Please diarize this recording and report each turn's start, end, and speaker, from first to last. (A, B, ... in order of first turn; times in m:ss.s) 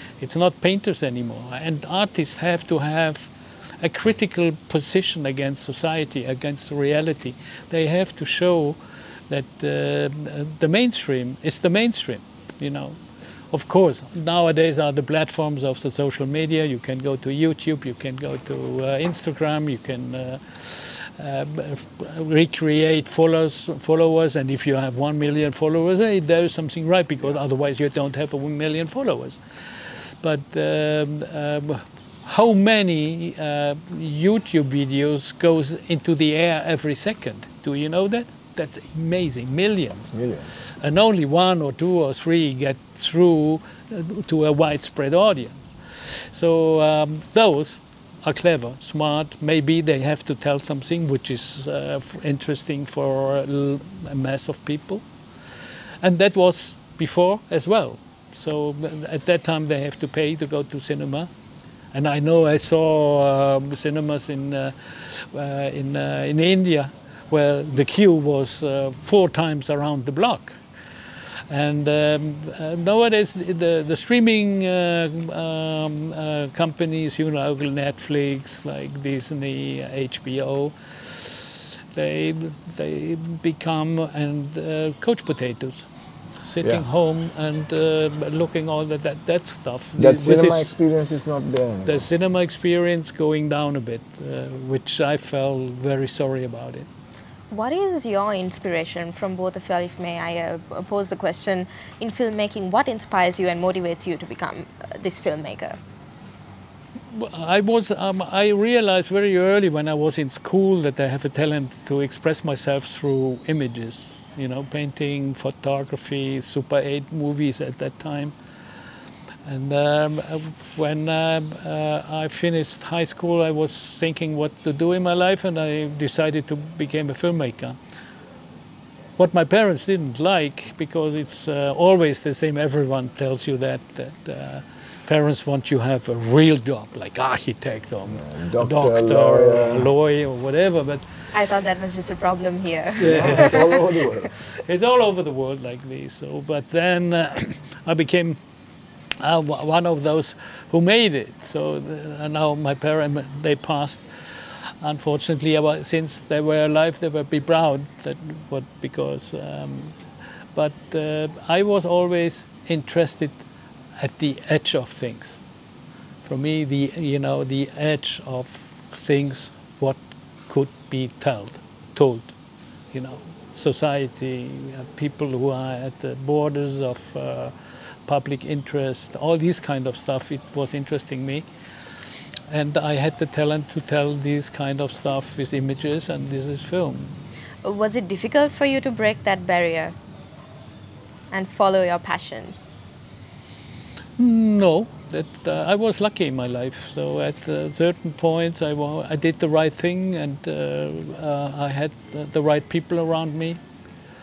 0:00.2-0:13.0 A
0:13.5-0:40.1 A
0:40.1-0:40.5 B
0:40.8-0:55.0 A
0:56.0-1:01.3 A
1:01.9-1:10.6 A
1:11.5-1:25.8 A
1:26.4-1:30.7 A
1:30.0-1:32.0 B
1:31.8-1:36.9 A
1:37.5-1:45.8 C
1:47.1-1:58.3 A
1:59.4-2:07.8 A
2:09.2-2:21.1 A
2:18.1-2:19.9 B
2:21.3-2:24.1 C
2:23.0-2:23.8 A
2:23.0-2:24.3 B
2:24.3-2:28.4 A
2:29.2-2:40.0 A
2:40.5-2:43.4 A
2:44.0-2:45.4 A
2:46.2-2:52.3 A
2:52.9-2:57.5 A
2:58.1-3:01.4 A
3:02.5-3:07.2 A
3:07.6-3:09.9 C
3:11.3-3:12.6 C
3:14.2-3:23.6 A